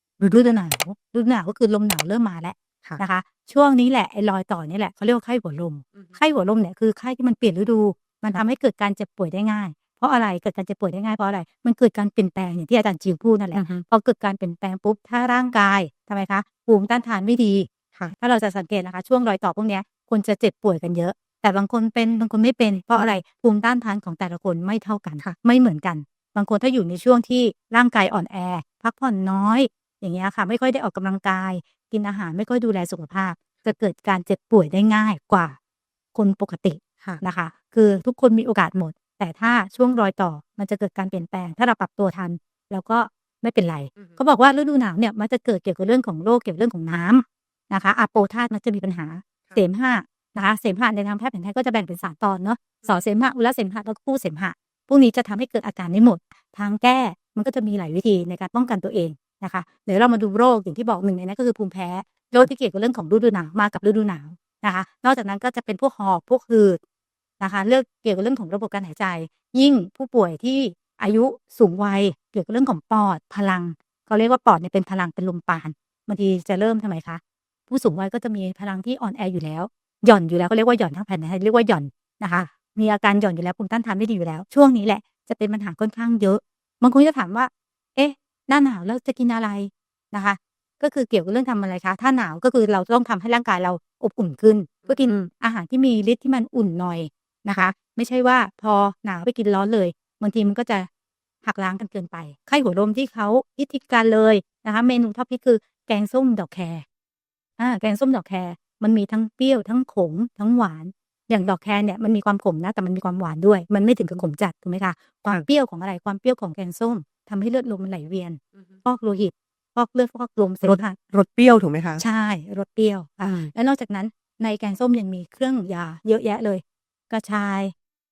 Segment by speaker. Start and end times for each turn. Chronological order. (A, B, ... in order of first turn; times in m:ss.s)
0:00.2-0:35.6 A
0:13.5-0:13.8 B
0:36.1-1:06.8 A
1:07.4-1:40.9 A
1:34.9-1:35.3 B
1:41.4-1:46.8 A
1:47.6-2:01.0 A
2:00.6-2:02.0 B
2:02.0-2:07.7 A